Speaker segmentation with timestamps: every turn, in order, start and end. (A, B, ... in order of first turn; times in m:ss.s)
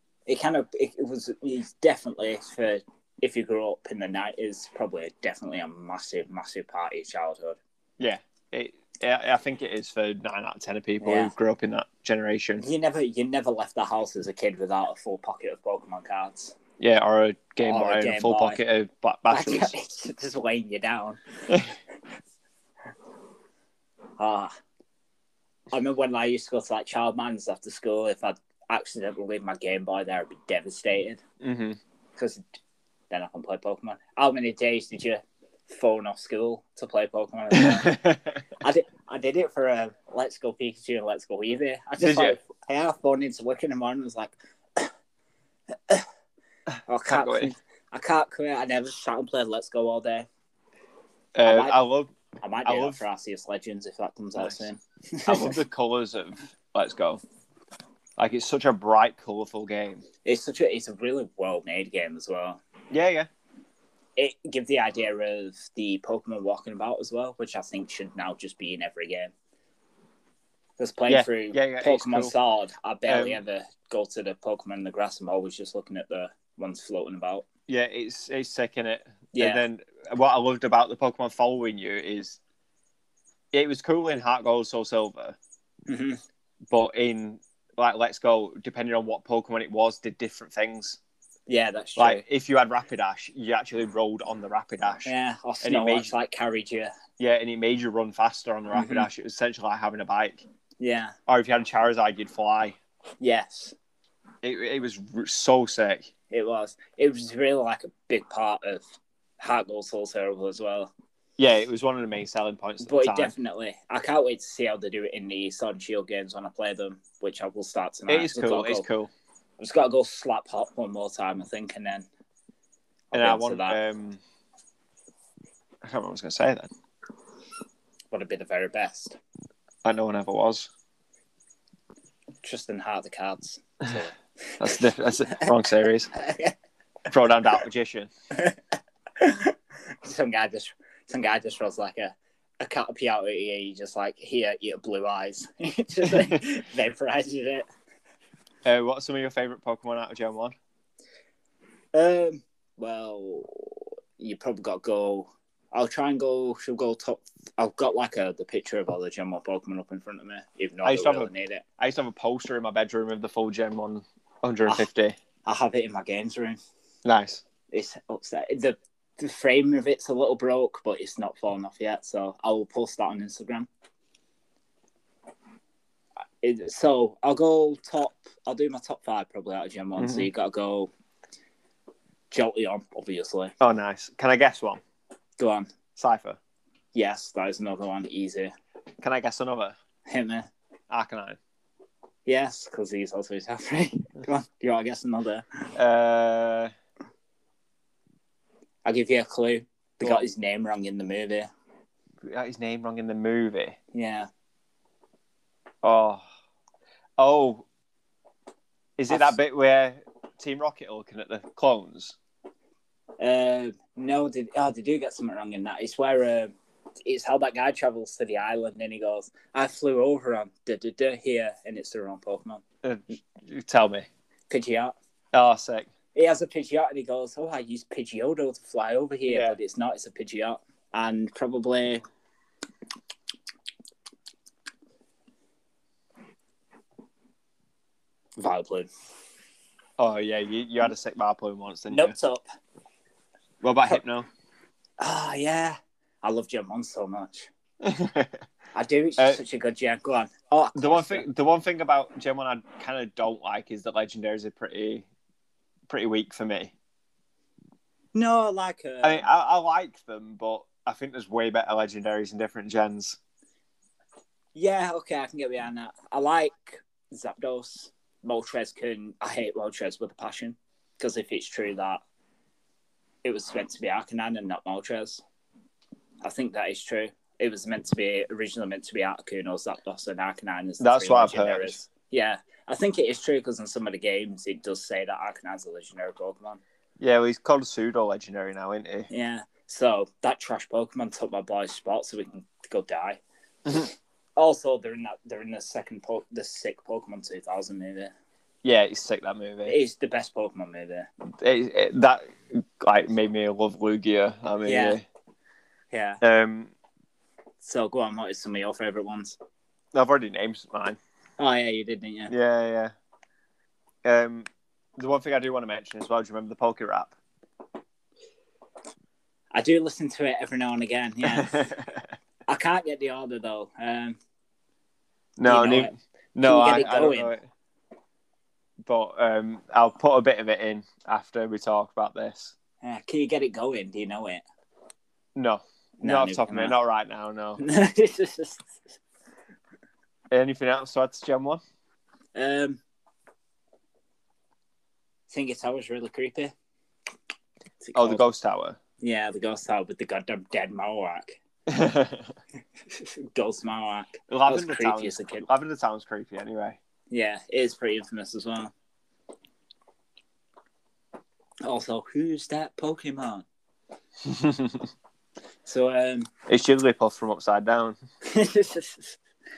0:00.3-0:07.6 A
0:08.0-0:12.6 B
0:11.0-0:11.3 A
0:12.6-0:16.6 A
0:16.8-0:19.7 B
0:17.6-0:18.6 A
0:19.3-0:21.2 A
0:24.2-0:24.5 A
0:25.7-0:31.2 A
0:31.4-0:31.8 B
0:32.2-0:32.4 A
0:33.1-0:38.0 A
0:37.5-0:38.4 B
0:38.6-0:44.9 A
0:42.0-0:42.4 B
0:46.9-0:50.3 A
0:47.0-0:47.5 B
0:51.3-0:52.1 B
0:51.4-0:51.8 A
0:52.4-0:55.6 A
0:52.6-0:53.0 B
0:54.4-0:54.6 B
0:55.2-0:57.2 B
0:58.2-1:00.0 B
1:00.2-1:02.6 A
1:02.9-1:03.3 B
1:04.2-1:09.3 A
1:10.8-1:17.4 A
1:11.1-1:12.3 B
1:13.1-1:13.4 B
1:17.7-1:22.4 B
1:19.3-1:19.6 A
1:23.5-1:25.4 B
1:25.9-1:26.2 A
1:26.7-1:31.0 B
1:31.5-1:32.2 A
1:32.0-1:36.1 B
1:35.0-1:36.9 A
1:37.2-1:40.4 B
1:38.7-1:39.1 A
1:40.8-1:41.1 A
1:41.3-1:42.8 B
1:43.2-1:43.8 A
1:44.4-1:46.1 B
1:46.3-1:48.8 A
1:49.4-1:50.9 A
1:51.4-1:53.3 B
1:52.8-1:58.8 A
1:58.1-1:59.1 B
1:59.6-2:02.0 A
2:03.1-2:03.8 A
2:03.1-2:04.2 B
2:05.8-2:06.7 B
2:08.1-2:09.2 A
2:09.8-2:10.7 B
2:12.4-2:14.8 A
2:14.6-2:16.1 B
2:16.1-2:16.5 A
2:17.1-2:18.1 B
2:18.3-2:18.6 A
2:19.2-2:27.6 A
2:28.6-2:30.5 B
2:31.9-2:41.6 A
2:40.8-2:45.2 B
2:45.4-2:46.6 A
2:47.0-2:47.4 B
2:47.7-2:53.7 A
2:56.4-3:00.9 A
3:00.0-3:00.3 B
3:02.3-3:03.5 A
3:03.6-3:04.8 B
3:05.4-3:05.7 A
3:06.0-3:06.4 B
3:06.9-3:08.5 A
3:09.0-3:09.8 B
3:10.1-3:10.5 A
3:10.9-3:11.4 B
3:12.2-3:15.5 A
3:15.7-3:16.7 B
3:18.8-3:21.5 A
3:22.2-3:23.8 B
3:23.9-3:24.3 A
3:25.8-3:26.2 B
3:27.2-3:27.6 B
3:29.0-3:32.2 B
3:29.1-3:29.4 A
3:33.2-3:42.6 A
3:42.8-3:44.1 B
3:44.5-3:45.0 A
3:45.3-3:45.9 B
3:46.1-3:52.0 A
3:49.3-3:49.6 B
3:58.4-3:58.9 A
4:00.0-4:02.1 B
4:01.9-4:02.4 A
4:03.6-4:04.3 B
4:05.0-4:07.5 A
4:07.8-4:08.4 B
4:08.7-4:11.2 A
4:10.7-4:15.0 B
4:15.9-4:16.7 B
4:18.1-4:19.2 A
4:19.0-4:23.2 B
4:24.5-4:32.0 A
4:33.2-4:35.2 A
4:36.2-4:46.6 A
4:40.8-4:41.8 B
4:47.0-4:49.1 B
4:49.1-4:53.2 A
4:53.7-4:58.1 A
4:58.6-4:59.8 B
4:59.6-5:01.1 A
5:01.4-5:05.0 B
5:04.6-5:05.0 A
5:05.9-5:06.2 A
5:06.2-5:06.7 B
5:07.6-5:09.4 A
5:09.9-5:11.0 B
5:11.4-5:12.3 A
5:12.3-5:12.9 B
5:14.0-5:17.1 B
5:19.5-5:21.6 A
5:21.2-5:22.0 B
5:22.5-5:24.2 A
5:25.4-5:27.4 B
5:25.4-5:27.3 A
5:28.8-5:32.5 B
5:32.8-5:34.4 A
5:35.4-5:37.6 B
5:36.0-5:36.7 A
5:37.6-5:38.8 A
5:40.3-5:41.6 B
5:42.3-5:42.8 A
5:45.3-5:46.5 A
5:47.8-5:48.2 A
5:47.9-5:48.8 B
5:49.0-5:51.4 A
5:51.7-5:52.3 B
5:52.9-5:55.5 A
5:54.3-5:56.8 B
5:57.1-5:58.7 A
6:01.6-6:03.4 A
6:04.2-6:04.9 B
6:05.6-6:06.3 A
6:06.5-6:08.0 B
6:08.2-6:09.2 A